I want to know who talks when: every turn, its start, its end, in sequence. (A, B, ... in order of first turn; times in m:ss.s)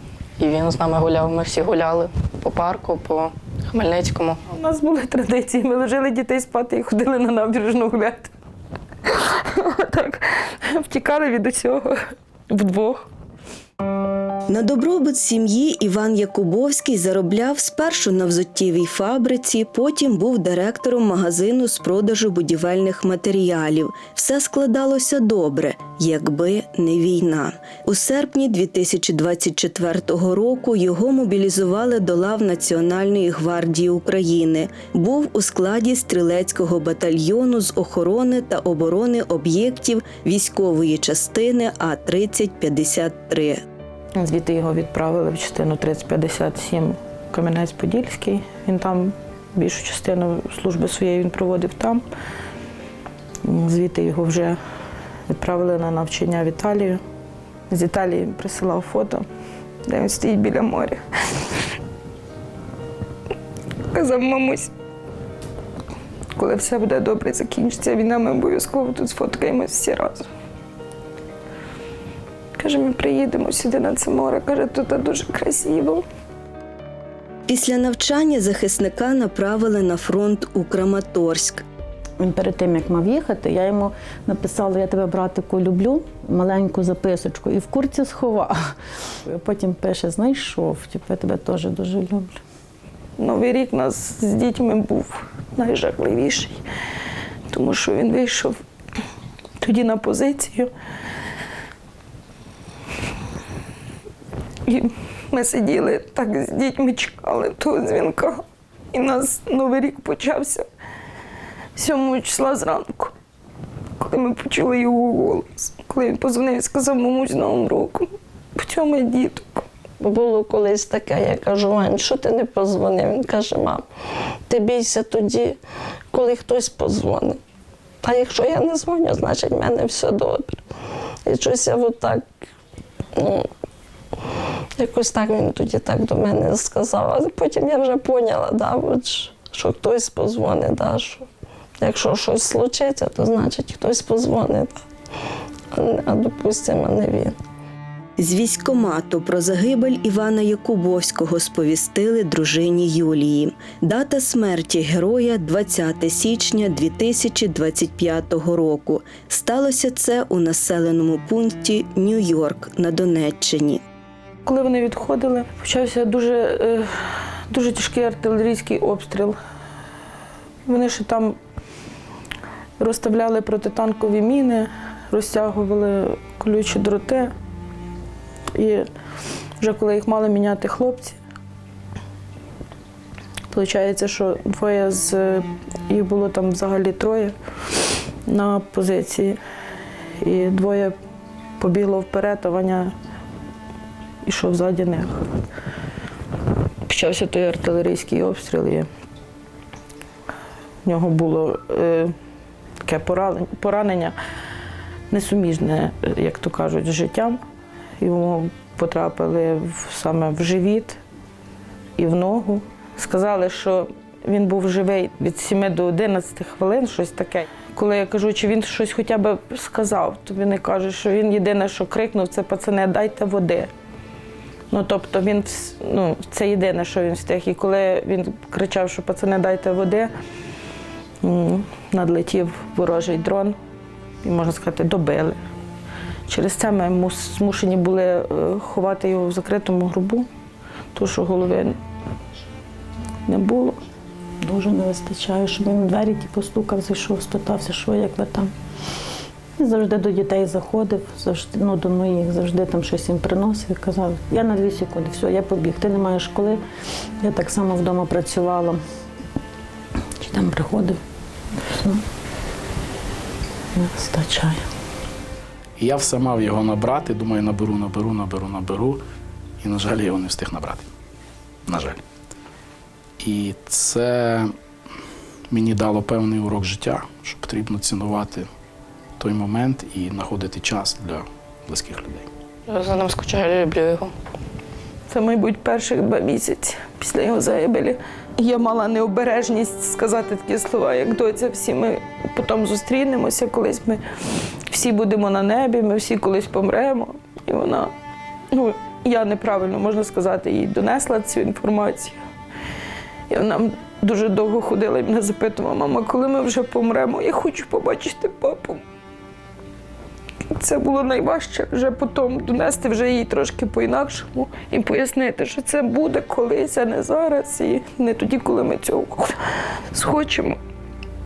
0:00.4-0:04.4 A
0:04.5-0:08.3 B
0:09.0-0:12.0 B
0:12.5-0:13.1 B
0:14.5-0:43.6 C
0:44.2-0:52.0 B
0:53.4-0:54.6 B
0:55.3-0:57.0 B
0:57.7-0:59.2 B
0:59.9-1:01.0 B
1:03.9-1:04.7 B
1:06.4-1:10.2 B
1:12.6-1:16.0 B
1:17.5-1:21.6 C
1:22.2-1:28.6 D
1:29.2-1:32.4 D
1:33.2-1:36.6 B
1:37.5-1:38.6 B
1:39.6-1:40.7 B
1:44.6-1:48.4 B
1:48.9-1:50.6 B
1:51.8-1:53.1 B
1:54.0-1:58.0 B
1:58.6-1:59.6 B
2:00.0-2:03.8 E
2:04.5-2:05.6 E
2:06.1-2:07.4 E
2:08.0-2:10.6 E
2:11.2-2:12.3 E
2:13.1-2:13.5 E
2:14.8-2:21.3 E
2:21.8-2:24.8 E
2:25.7-2:27.4 E
2:28.2-2:43.8 C
2:44.4-2:46.9 B
2:47.5-2:49.4 B
2:50.6-2:51.3 B
2:52.8-2:57.3 B
2:58.6-2:58.8 B
2:59.6-3:01.2 B
3:03.5-3:07.3 B
3:08.3-3:09.4 B
3:10.2-3:10.9 B
3:11.6-3:12.9 B
3:14.2-3:15.2 B
3:16.9-3:18.9 B
3:20.8-3:22.1 B
3:22.8-3:24.1 B
3:25.1-3:27.4 B
3:28.0-3:31.0 B
3:32.0-3:43.7 B
3:44.7-3:50.1 B
3:51.2-3:53.5 B
3:54.2-3:55.4 B
3:56.3-4:00.2 B
4:00.9-4:01.7 B
4:03.3-4:03.7 B
4:04.4-4:08.5 D
4:09.6-4:16.6 D
4:17.2-4:18.8 D
4:20.2-4:21.0 D
4:23.8-4:24.6 D
4:25.8-4:29.0 F
4:29.6-4:30.9 F
4:31.7-4:32.0 F
4:33.2-4:34.5 F
4:35.5-4:38.5 F
4:39.2-4:42.3 F
4:42.7-4:44.1 A
4:45.1-4:54.0 B
4:54.7-4:57.9 B
4:58.5-5:02.2 B
5:03.3-5:08.8 B
5:10.6-5:19.3 B
5:19.9-5:20.6 B